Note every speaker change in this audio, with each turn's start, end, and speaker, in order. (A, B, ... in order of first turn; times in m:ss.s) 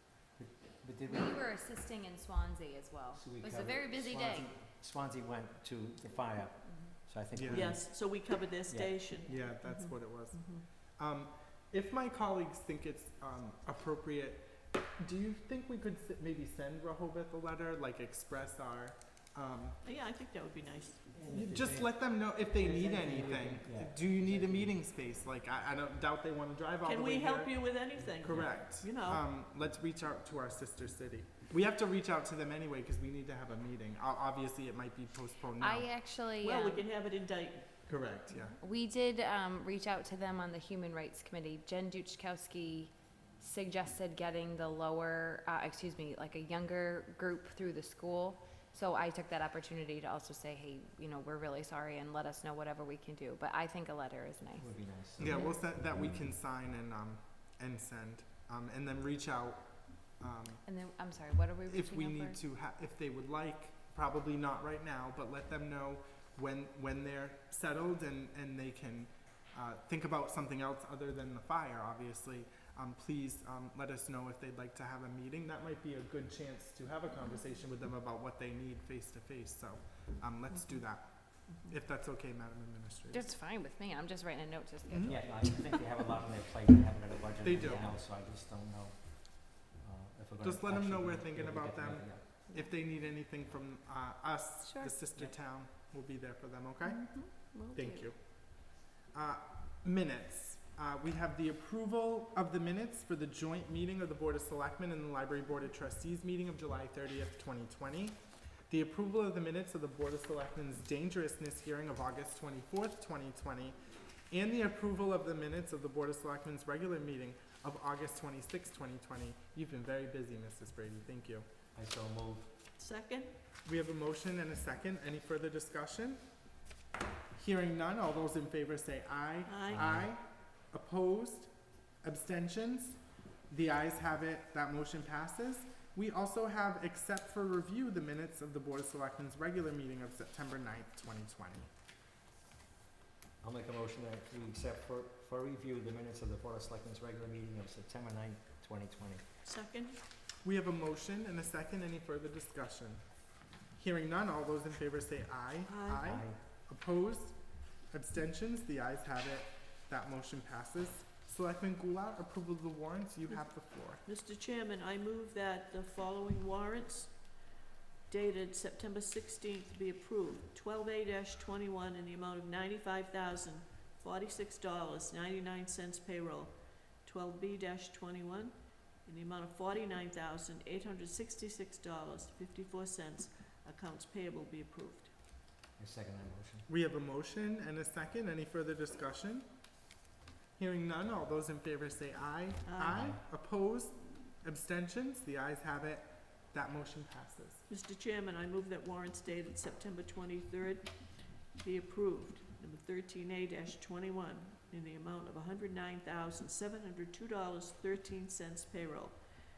0:00.3-0:01.5 A
0:01.1-0:04.5 B
0:03.1-0:09.0 A
0:06.6-0:06.9 B
0:07.3-0:07.7 C
0:07.5-0:10.6 D
0:09.3-0:19.8 C
0:19.8-0:21.2 D
0:21.1-0:24.8 A
0:21.3-0:36.2 C
0:26.8-0:29.2 D
0:28.2-0:28.6 A
0:35.6-0:36.8 B
0:36.4-0:38.5 D
0:37.8-0:38.6 C
0:38.6-0:55.6 B
0:54.6-0:56.3 A
0:55.2-1:00.6 C
1:00.6-1:02.4 B
1:01.6-1:23.2 C
1:20.5-1:21.7 D
1:23.1-1:25.8 B
1:24.9-1:25.2 C
1:25.0-1:32.3 A
1:27.4-1:28.0 C
1:30.4-1:53.8 C
1:34.6-1:35.2 B
1:36.8-1:38.1 B
1:54.3-2:01.5 C
2:01.7-2:02.5 A
2:02.8-2:03.3 D
2:03.6-2:06.4 C
2:07.3-2:21.7 C
2:09.4-2:09.9 D
2:09.7-2:10.1 A
2:23.4-2:29.3 A
2:29.4-2:30.0 D
2:30.4-2:44.0 C
2:35.6-2:36.1 D
2:36.0-2:36.4 A
2:44.0-2:47.4 D
2:48.1-3:05.1 D
3:05.8-3:06.7 A
3:06.7-3:09.5 C
3:10.6-3:17.6 C
3:12.6-3:13.0 D
3:12.9-3:13.2 A
3:17.7-3:29.2 D